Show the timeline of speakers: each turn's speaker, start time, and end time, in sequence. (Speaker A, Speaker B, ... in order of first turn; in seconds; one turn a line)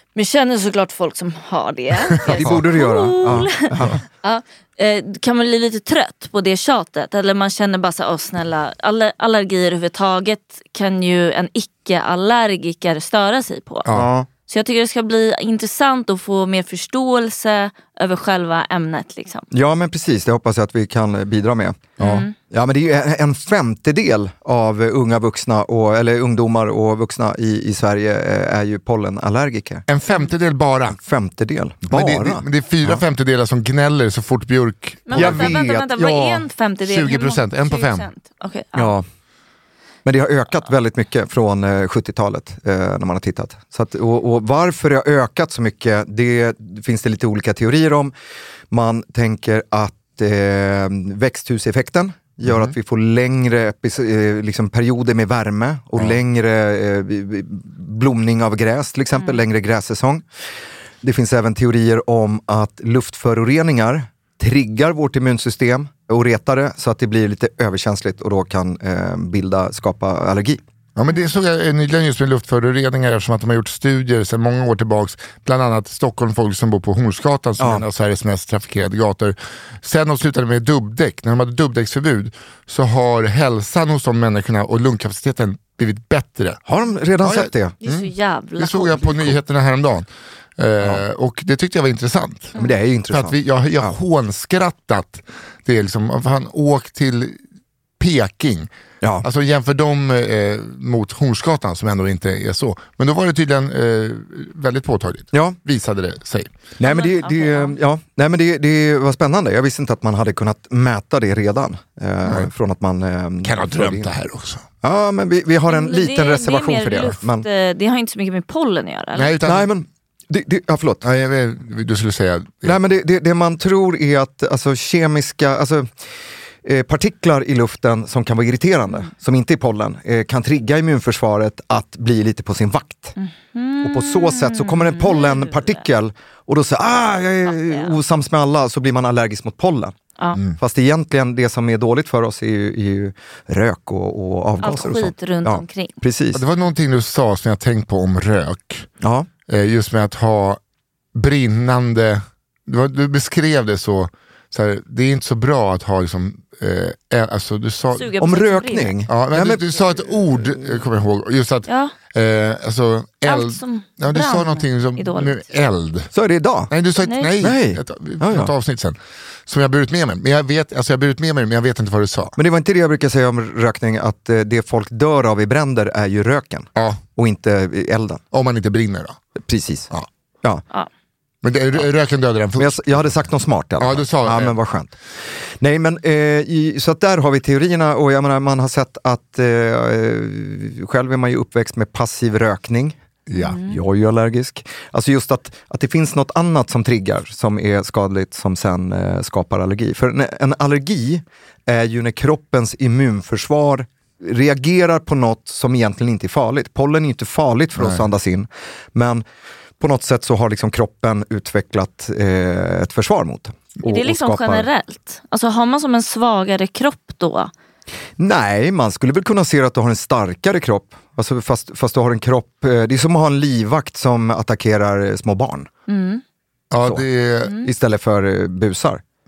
Speaker A: 0.1-3.7
Speaker B: 2.2-4.0
Speaker A: 4.2-13.9
Speaker B: 13.9-14.3
Speaker A: 14.5-19.5
Speaker B: 19.5-29.8
Speaker C: 22.0-22.2
Speaker A: 22.0-22.3
Speaker C: 29.9-31.0
Speaker B: 30.9-33.0
Speaker C: 31.9-35.6
Speaker A: 35.1-38.9
Speaker B: 35.1-36.5
Speaker C: 36.8-38.1
Speaker B: 38.7-39.0
Speaker B: 40.0-48.1
Speaker B: 48.7-60.2
Speaker C: 52.4-52.7
Speaker B: 61.0-70.6
Speaker C: 71.0-86.6
Speaker B: 77.6-77.8
Speaker B: 86.7-87.7
Speaker C: 87.2-90.1
Speaker A: 87.8-89.3
Speaker C: 90.6-92.5
Speaker B: 92.5-94.0
Speaker C: 93.1-97.4
Speaker C: 98.0-98.7
Speaker B: 99.0-99.3
Speaker C: 99.2-106.5
Speaker B: 106.8-114.1
Speaker A: 106.8-107.8
Speaker C: 113.4-114.6
Speaker B: 114.8-117.5
Speaker A: 115.7-119.3
Speaker C: 119.2-119.7
Speaker B: 119.4-121.0
Speaker C: 121.0-122.8
Speaker B: 122.6-125.9
Speaker B: 126.6-133.1
Speaker A: 133.2-135.8
Speaker B: 133.8-139.9
Speaker A: 137.5-137.9
Speaker B: 140.6-146.4
Speaker A: 144.6-146.0
Speaker C: 146.3-148.9
Speaker B: 149.0-149.3
Speaker C: 149.5-150.6
Speaker C: 151.1-158.1
Speaker A: 157.9-158.9
Speaker B: 158.2-160.8
Speaker C: 159.1-166.1
Speaker A: 161.7-161.9
Speaker A: 163.2-165.4
Speaker B: 166.1-166.7
Speaker C: 166.7-172.3
Speaker A: 167.0-167.3
Speaker B: 167.4-168.5
Speaker B: 172.3-178.2
Speaker C: 176.8-177.0
Speaker C: 178.3-179.2
Speaker B: 179.4-179.9
Speaker C: 181.4-183.1
Speaker B: 182.6-184.9
Speaker C: 183.8-184.6
Speaker B: 185.6-193.0
Speaker C: 193.3-193.6
Speaker A: 193.4-193.8
Speaker B: 193.5-209.2
Speaker B: 209.8-214.7
Speaker A: 213.8-217.5
Speaker B: 218.2-225.7
Speaker A: 225.9-226.2
Speaker C: 226.7-227.6
Speaker B: 226.8-229.0